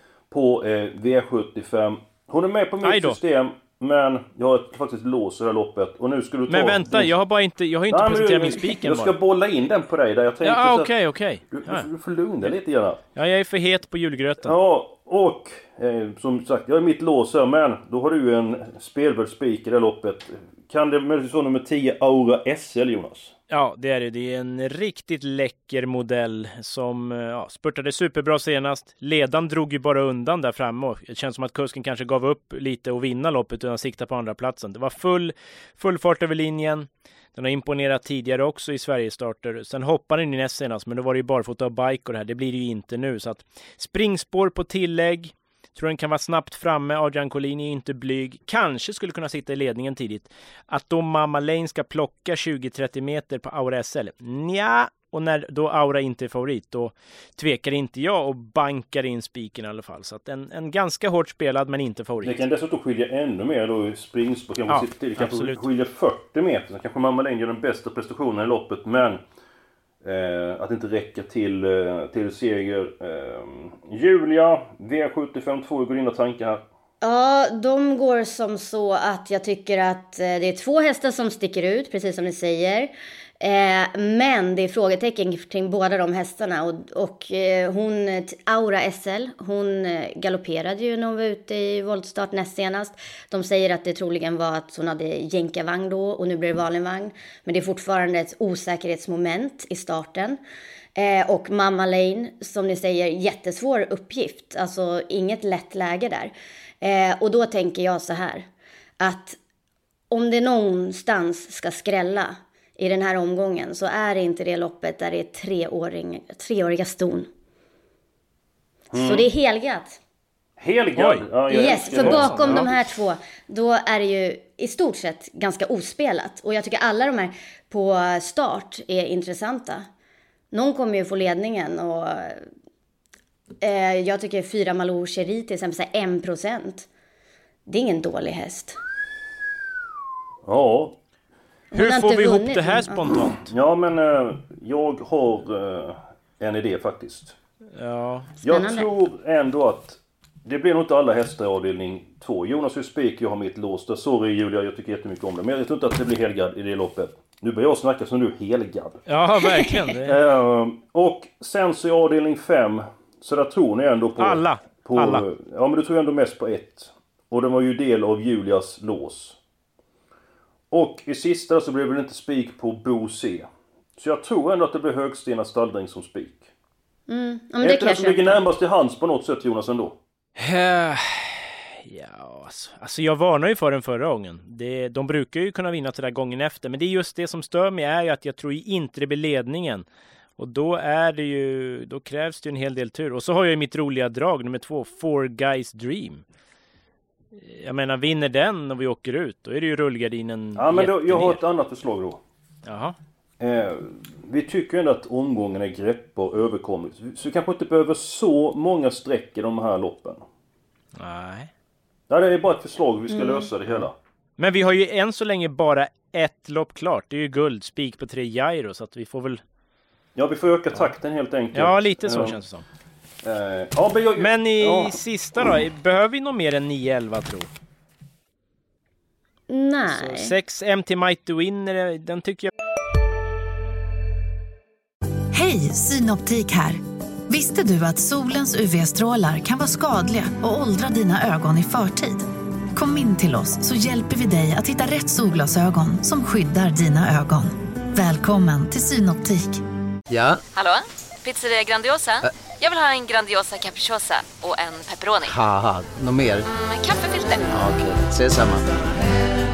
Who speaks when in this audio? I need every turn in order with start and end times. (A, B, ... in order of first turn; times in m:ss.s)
0:00.3-0:07.1 A
0:02.8-0:03.2 B
0:06.5-0:09.1 B
0:07.9-0:10.9 A
0:10.4-0:11.9 B
0:11.5-0:13.0 A
0:13.2-0:14.6 B
0:14.4-0:23.3 A
0:23.5-1:02.4 B
1:02.2-1:09.2 A
1:04.7-1:05.6 B
1:10.0-1:16.6 A
1:17.0-1:40.4 C
1:41.0-1:48.5 C
1:49.0-1:49.4 C
1:50.1-1:57.3 C
1:58.9-1:59.3 A
1:59.0-2:00.0 C
2:00.6-2:02.8 A
2:01.0-2:02.6 B
2:01.5-2:09.9 C
2:10.5-2:12.4 C
2:13.6-2:16.9 C
2:17.7-2:18.8 C
2:20.5-2:21.0 A
2:21.7-2:23.2 C
2:21.8-2:23.5 B
2:23.5-2:27.4 A
2:27.8-2:28.3 B
2:28.4-2:39.0 A
2:28.5-2:28.9 C
2:39.1-2:40.2 B
2:40.0-2:49.4 A
2:44.2-2:45.2 B
2:50.7-2:56.5 A
2:57.1-2:58.4 C
2:57.6-3:00.0 A
3:00.4-3:09.9 B
3:10.4-3:16.2 B
3:17.4-3:21.4 B
3:20.6-3:22.2 A
3:22.7-3:23.0 B
3:23.4-3:30.2 A
3:31.0-3:31.5 B
3:32.1-3:34.0 A
3:33.1-3:33.5 C
3:34.4-3:39.4 B
3:40.2-3:42.4 A
3:41.5-3:42.6 B
3:43.2-3:44.9 A
3:44.2-3:47.5 B
3:49.5-3:50.3 C
3:49.9-3:52.5 B
3:55.3-4:09.6 D
4:10.1-4:10.4 E
4:10.5-4:15.4 F
4:15.3-4:16.5 E
4:16.5-4:17.6 F
4:17.5-4:18.8 E